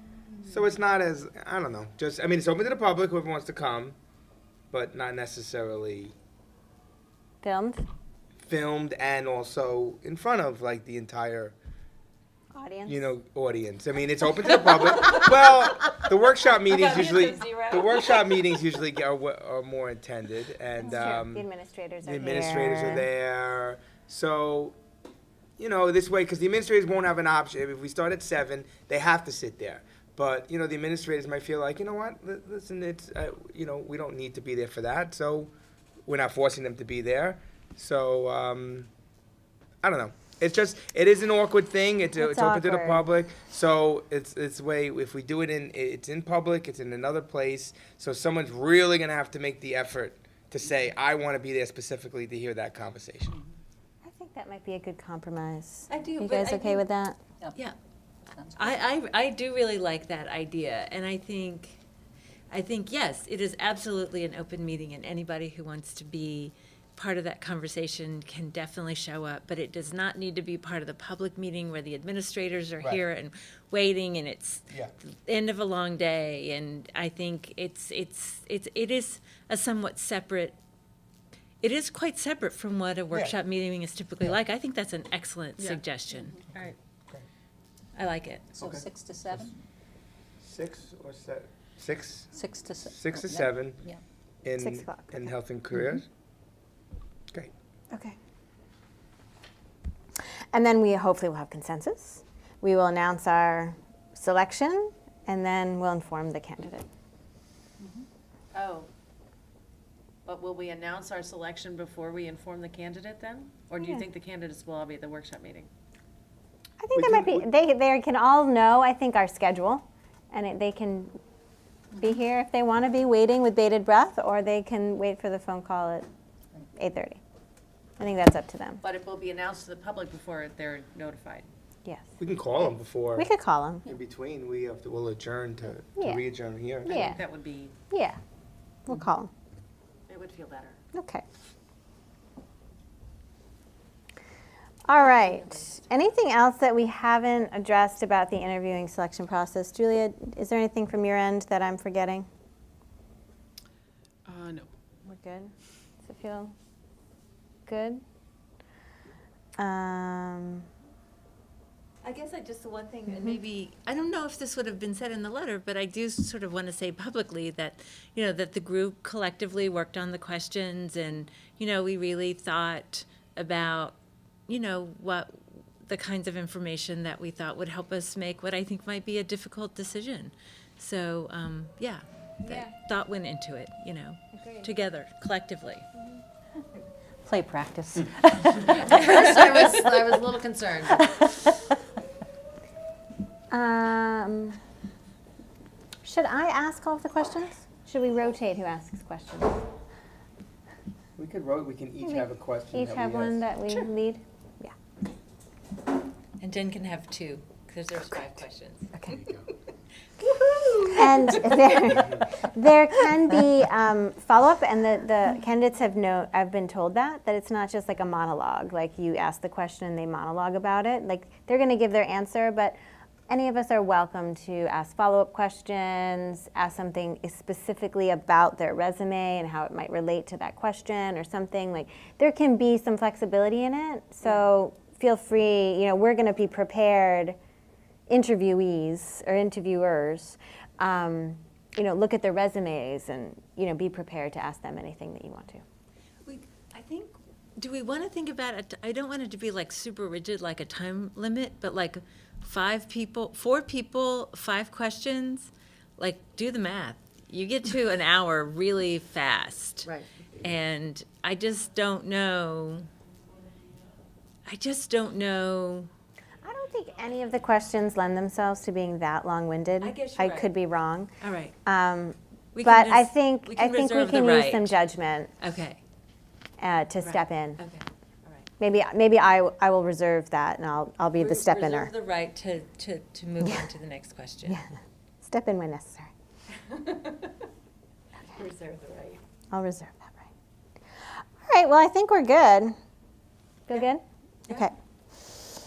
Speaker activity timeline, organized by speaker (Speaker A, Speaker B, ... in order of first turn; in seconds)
Speaker A: 0.4-4.0, 4.7-6.2, 8.4-11.6, 12.9-21.4, 22.1-24.8, 25.6-35.5, 36.1-38.9, 39.8-53.4, 86.5-87.3, 88.6-89.5, 90.4-93.8, 94.5-96.1, 117.0-117.5, 132.2-133.3, 133.9-137.1, 201.2-203.5, 209.1-209.5
Speaker B: 7.4-7.8, 12.5-13.1, 20.8-23.1, 42.2-43.1, 54.0-57.2, 94.6-95.3, 100.5-106.9, 113.8-114.0, 116.8-121.1, 122.0-126.1, 126.8-127.2, 128.0-128.8, 131.8-132.1, 133.2-133.9, 136.0-136.2, 136.8-137.2, 137.9-138.2, 138.9-139.3, 140.9-141.2, 144.9-152.3, 155.1-155.5, 156.0-156.5, 157.7-158.0, 159.6-160.7, 163.1-163.4, 182.4-182.7, 184.3-184.7, 193.5-194.6, 196.0-199.6, 202.0-204.7, 208.9-209.2, 210.8-222.8, 223.3-237.4, 238.1-245.6, 266.4-271.1, 271.6-275.3, 276.6-277.6, 278.6-281.9, 284.4-286.1, 289.5-290.3, 291.5-292.7, 293.7-294.7
Speaker C: 16.7-18.2, 55.9-56.8, 58.5-61.8, 62.5-80.6, 81.6-86.4, 88.0-88.6, 162.0-174.0, 174.5-185.9, 187.3-189.0, 206.4-208.9, 210.4-210.7, 246.3-259.9, 260.4-262.9, 264.5-265.9, 269.8-270.5, 271.2-271.6, 272.6-274.8, 275.4-275.8, 277.0-278.5, 281.2-284.6, 286.7-287.4, 288.2-289.2
Speaker D: 58.3-58.8, 88.6-89.6, 92.3-94.0
Speaker E: 86.4-86.8, 107.9-108.9, 110.3-115.7, 128.8-131.5, 136.8-137.8, 140.1-140.8, 145.2-145.8, 154.3-154.7, 188.6-191.1